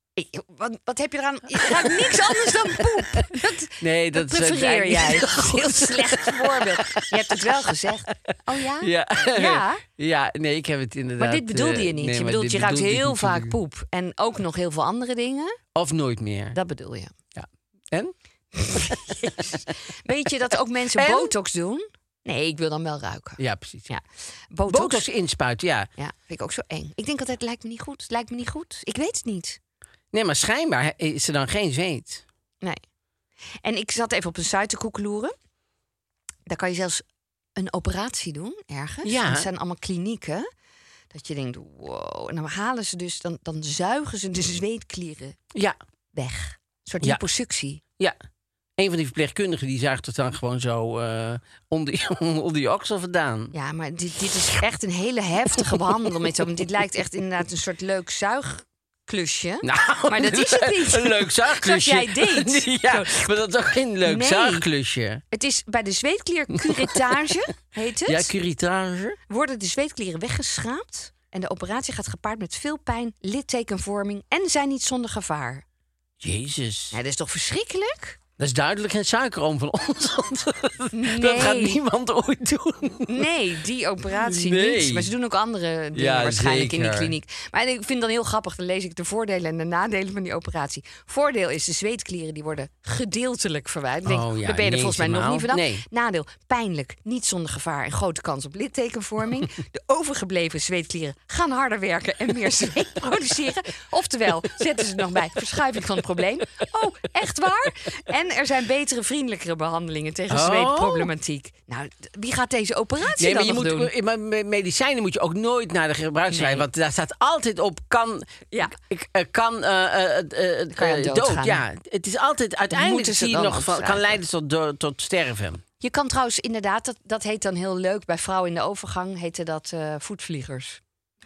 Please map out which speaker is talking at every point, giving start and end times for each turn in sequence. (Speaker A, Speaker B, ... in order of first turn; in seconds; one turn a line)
Speaker A: 0.2-9.8
Speaker B: 1.6-7.6
Speaker B: 8.8-13.6
Speaker A: 11.2-15.6
Speaker B: 15.8-16.6
Speaker A: 16.5-17.1
Speaker B: 17.4-18.1
Speaker A: 18.6-25.1
Speaker B: 18.7-19.5
Speaker B: 21.0-21.3
Speaker B: 23.4-23.9
Speaker B: 24.7-25.9
Speaker A: 26.0-29.6
Speaker B: 30.1-32.2
Speaker A: 33.6-35.3
Speaker A: 36.5-37.0
Speaker A: 37.6-40.5
Speaker B: 39.0-39.5
Speaker A: 41.1-45.4
Speaker A: 46.1-47.8
Speaker B: 48.8-53.5
Speaker A: 53.5-63.2
Speaker B: 55.7-56.1
Speaker B: 59.6-65.2
Speaker A: 64.0-64.7
Speaker A: 65.3-68.3
Speaker B: 66.6-67.3
Speaker B: 68.1-69.2
Speaker A: 69.3-75.6
Speaker B: 76.2-77.0
Speaker A: 76.9-78.2
Speaker B: 78.4-83.3
Speaker A: 80.9-81.8
Speaker A: 83.1-113.9
Speaker B: 84.1-85.1
Speaker B: 86.0-87.1
Speaker B: 94.0-95.8
Speaker B: 110.3-111.1
Speaker B: 113.2-125.6
Speaker A: 116.3-116.7
Speaker A: 120.7-121.6
Speaker A: 122.7-124.2
Speaker A: 125.8-130.8